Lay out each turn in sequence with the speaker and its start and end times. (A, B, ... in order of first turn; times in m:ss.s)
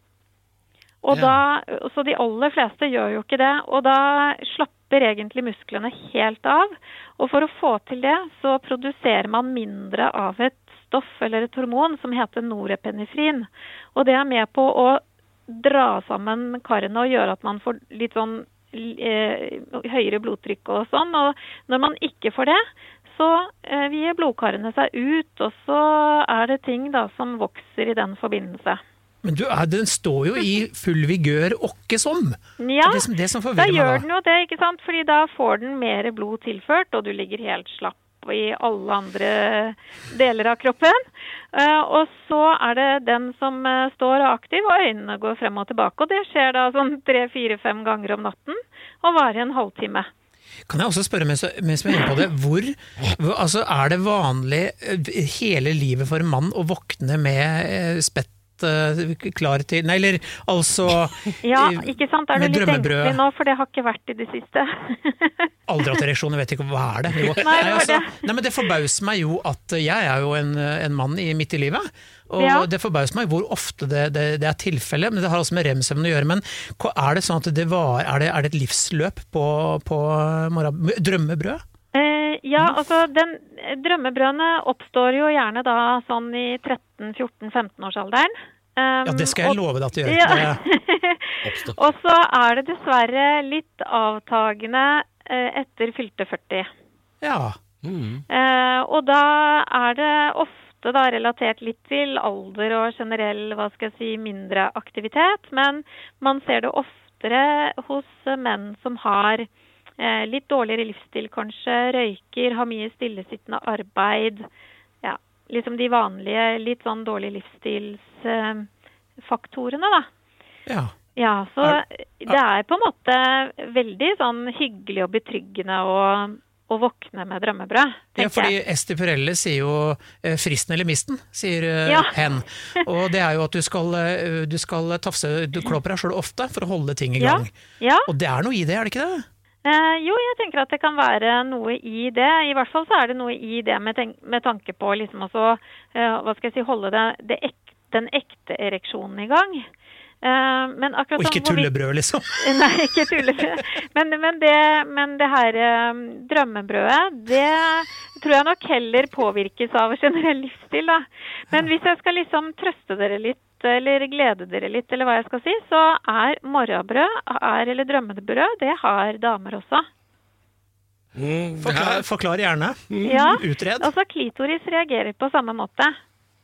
0:01.0-0:28.8 A
0:01.1-0:01.4 B
0:29.2-0:34.1 C
0:32.6-0:50.1 A
0:50.7-1:03.2 C
1:01.4-1:05.5 A
1:05.7-1:21.6 C
1:07.4-1:08.2 A
1:12.4-1:12.7 A
1:21.9-1:36.7 A
1:29.1-1:30.6 C
1:31.4-1:31.8 B
1:37.2-1:37.6 C
1:37.8-1:38.3 B
1:38.3-1:49.5 A
1:50.0-1:54.5 A
1:55.0-1:58.7 A
1:59.2-2:00.1 A
2:00.7-2:00.9 C
2:01.2-2:08.5 A
2:01.6-2:02.3 C
2:08.2-2:17.5 C
2:11.9-2:12.2 A
2:17.2-2:18.1 A
2:18.1-2:19.2 C
2:19.6-2:29.7 A
2:30.2-2:31.7 A
2:31.2-2:32.6 C
2:32.4-2:49.9 A
2:51.2-2:52.0 B
2:51.6-2:53.9 C
2:52.9-2:53.4 B
2:53.0-2:56.0 A